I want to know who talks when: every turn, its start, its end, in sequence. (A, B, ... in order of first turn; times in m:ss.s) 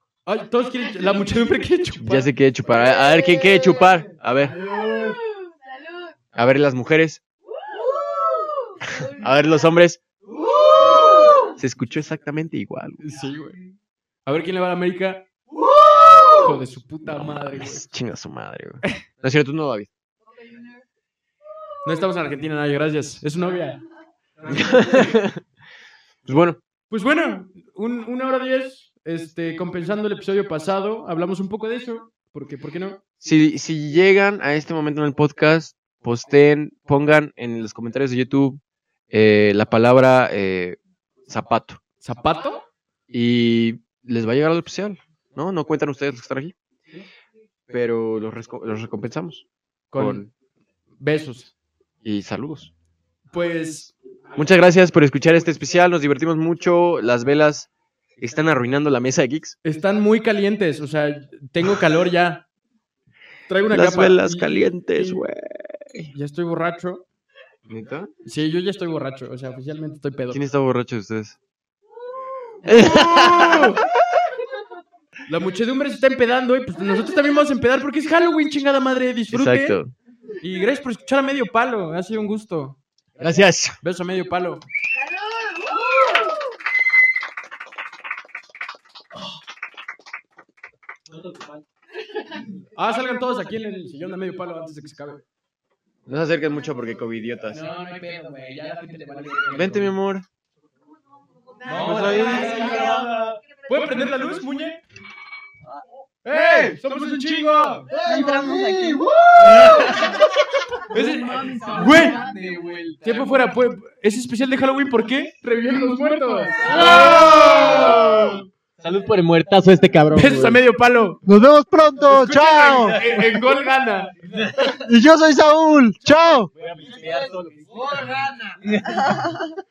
0:00.2-0:02.3 A
0:02.0-0:04.6 B
0:04.8-0:05.2 A
0:06.3-0:07.2 B
0:08.8-0:10.0 B
0:11.4-0:13.0 B
0:13.0-0:13.6 A
0:14.2-0:15.3 A
0:16.3-0:17.8 A
0:17.1-0:19.9 B
0:21.8-0:23.8 A
0:24.4-0:25.4 B
0:26.2-0:26.6 B
0:26.9-0:33.0 A
0:33.2-0:41.8 B
0:42.0-0:42.6 A
0:43.1-0:46.5 B
0:47.7-0:50.3 B
0:49.9-0:50.3 A
0:51.0-0:51.5 A
0:52.0-0:52.7 B
0:53.3-0:53.9 A
0:54.4-0:57.7 B
0:58.2-0:59.6 B
0:59.6-1:02.5 A
1:03.5-1:05.2 A
1:03.7-1:06.1 B
1:06.1-1:07.0 A
1:07.7-1:08.1 B
1:08.2-1:10.4 A
1:10.3-1:11.4 B
1:12.5-1:13.8 A
1:12.6-1:14.2 B
1:15.3-1:19.8 A
1:19.3-1:19.9 B
1:20.4-1:22.8 A
1:23.2-1:23.8 B
1:23.8-1:24.6 A
1:32.7-1:35.2 A
1:36.1-1:37.6 B
1:37.5-1:40.0 A
1:39.5-1:40.2 B
1:41.6-1:44.8 A
1:41.7-1:42.9 B
1:46.2-1:47.9 A
1:48.0-1:49.6 C
1:49.4-1:50.2 B
1:50.9-1:52.3 A
1:51.6-1:53.3 B
1:53.0-1:58.3 A
1:56.7-2:00.6 B
2:00.1-2:01.2 A
2:01.2-2:03.0 D
2:02.1-2:04.3 A
2:02.7-2:03.2 B
2:04.4-2:04.8 B
2:04.8-2:06.5 D
2:06.5-2:08.8 B
2:08.8-2:09.6 C